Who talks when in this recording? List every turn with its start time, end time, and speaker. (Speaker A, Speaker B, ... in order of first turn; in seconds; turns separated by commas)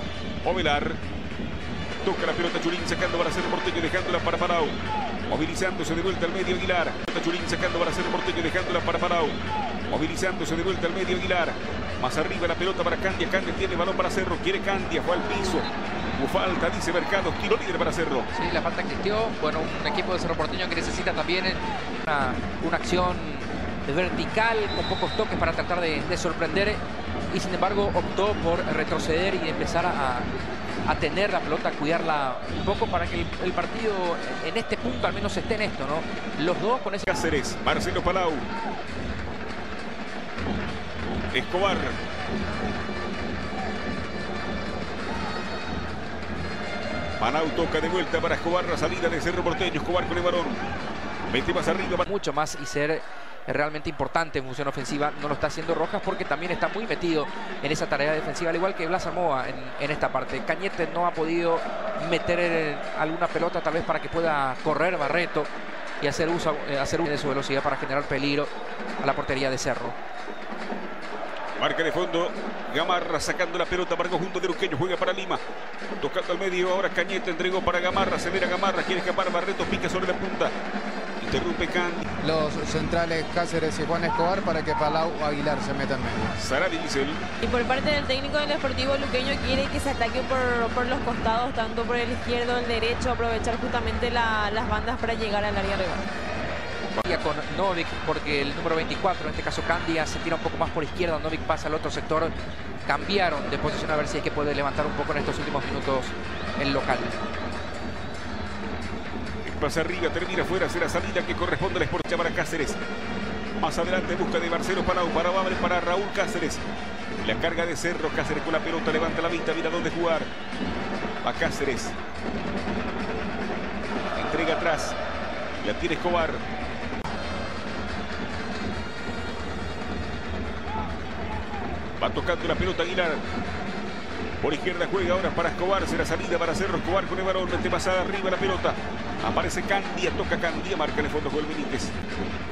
Speaker A: 0.4-1.0, Speaker A: 2.0-4.8, Speaker A: 5.3-9.4, Speaker A: 9.9-18.3, Speaker B: 18.3-30.3, Speaker B: 30.8-37.1, Speaker A: 37.1-38.5, Speaker A: 41.3-42.0, Speaker A: 47.2-50.6, Speaker A: 51.3-52.0, Speaker B: 52.0-65.5, Speaker B: 66.0-70.0, Speaker A: 71.6-75.4, Speaker A: 76.0-80.5, Speaker A: 81.2-82.0, Speaker C: 82.2-86.3, Speaker A: 86.3-87.2, Speaker D: 87.4-96.1, Speaker B: 97.0-102.3, Speaker B: 102.8-107.2, Speaker A: 109.4-112.8, Speaker A: 113.6-116.6, Speaker A: 117.2-120.3, Speaker A: 121.2-122.0, Speaker A: 124.1-125.0, Speaker A: 125.6-126.4, Speaker A: 132.0-133.2, Speaker A: 134.4-141.9